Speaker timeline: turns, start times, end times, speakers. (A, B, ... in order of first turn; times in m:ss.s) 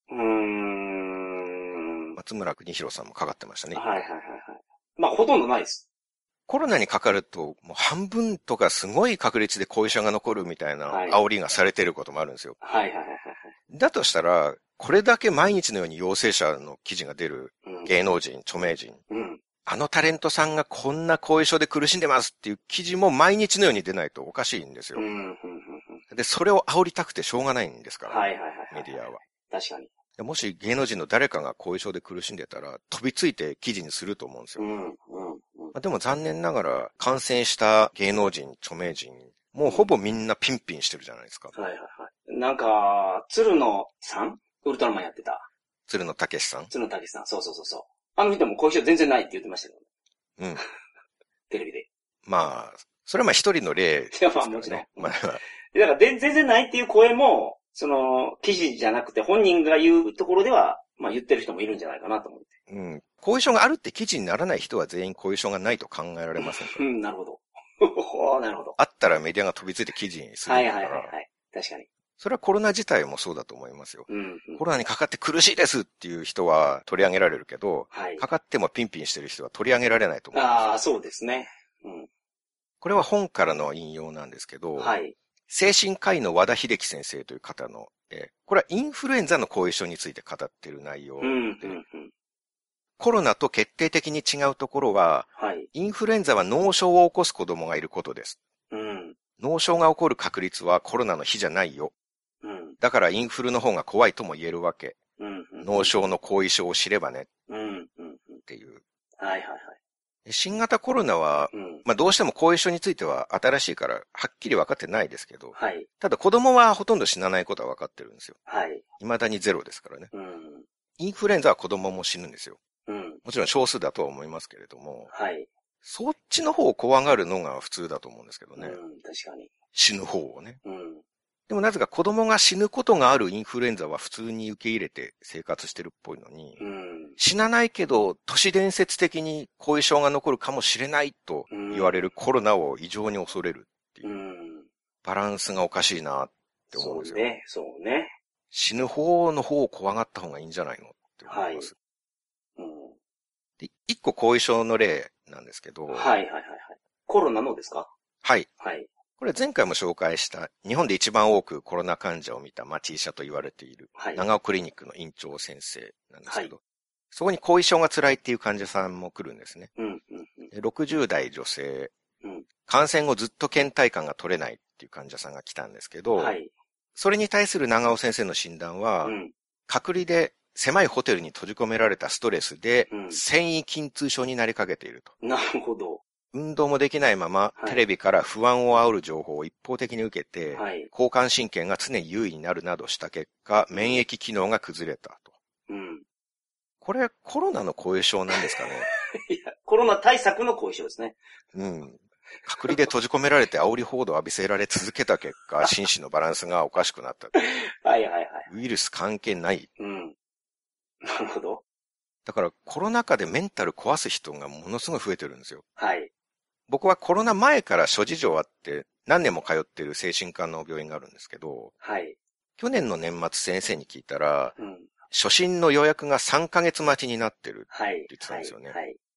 0:00.1-0:02.2 A
0:02.2-0:03.9 B
0:03.7-0:05.8 A
0:06.5-0:12.6 B
0:10.8-0:11.2 A
0:12.6-0:13.5 A
0:13.7-0:19.0 B
0:17.6-0:17.9 A
0:19.1-0:19.4 A
0:19.6-0:25.0 B
0:24.9-0:26.0 A
0:26.1-0:29.2 B
0:28.1-0:29.9 A
0:30.2-0:34.6 B
0:34.6-0:35.7 A
0:35.7-0:41.5 B
0:41.5-0:45.5 A
0:45.9-0:46.7 B
0:46.7-0:49.8 A
0:51.5-0:51.9 A
0:52.2-0:55.4 B
0:54.1-0:55.1 A
0:55.7-1:02.5 A
1:02.7-1:06.8 B
1:06.4-1:08.8 A
1:08.8-1:11.1 B
1:10.4-1:11.9 A
1:12.2-1:20.5 B
1:14.1-1:14.6 A
1:17.9-1:18.2 A
1:20.3-1:22.1 A
1:22.8-1:24.9 B
1:24.8-1:25.2 A
1:25.5-1:31.8 B
1:31.2-1:32.1 A
1:33.0-1:38.4 B
1:35.4-1:35.7 A
1:38.7-1:39.2 A
1:39.4-1:41.9 B
1:42.4-1:42.8 A
1:42.8-1:45.0 B
1:45.2-1:45.9 A
1:45.6-1:47.3 B
1:47.5-1:48.4 A
1:48.5-1:48.8 B
1:49.2-1:49.7 A
1:50.2-1:58.4 B
1:51.5-1:51.8 A
1:55.5-1:55.9 A
1:58.5-1:58.8 A
1:59.0-2:00.1 B
2:00.1-2:00.6 A
2:01.0-2:02.6 B
2:02.9-2:03.2 A
2:03.2-2:05.1 B
2:05.1-2:05.5 A
2:05.8-2:08.8 B
2:08.6-2:09.5 A
2:09.7-2:10.6 B
2:10.6-2:11.0 A
2:11.5-2:16.6 B
2:16.6-2:17.2 A
2:17.2-2:24.0 B
2:21.5-2:22.1 A
2:24.0-2:24.7 A
2:25.0-2:27.2 B
2:26.7-2:28.1 A
2:28.5-2:31.7 B
2:31.3-2:31.7 A
2:32.6-2:32.9 A
2:33.6-2:36.1 B
2:35.9-2:37.9 A
2:38.2-2:38.5 B
2:38.6-2:38.9 A
2:39.2-2:46.6 B
2:44.0-2:44.2 A
2:47.1-2:49.7 B
2:49.8-2:50.5 A
2:50.5-2:51.9 B
2:52.6-2:56.3 B
2:56.1-2:56.5 A
2:57.0-2:59.1 B
2:59.0-2:59.3 A
2:59.7-3:05.1 B
3:02.9-3:03.2 A
3:05.2-3:06.0 A
3:06.3-3:15.3 B
3:10.5-3:10.9 A
3:13.7-3:14.0 A
3:15.7-3:16.0 A
3:16.8-3:18.9 B
3:18.4-3:21.2 A
3:21.5-3:27.3 B
3:27.3-3:28.5 A
3:28.5-3:29.7 B
3:29.8-3:30.1 A
3:31.0-3:31.6 A
3:32.2-3:35.6 B
3:35.8-3:36.1 A
3:36.7-3:41.7 B
3:41.8-3:42.2 A
3:42.6-3:44.6 B
3:44.6-3:44.9 A
3:45.1-3:48.8 B
3:47.7-3:49.0 A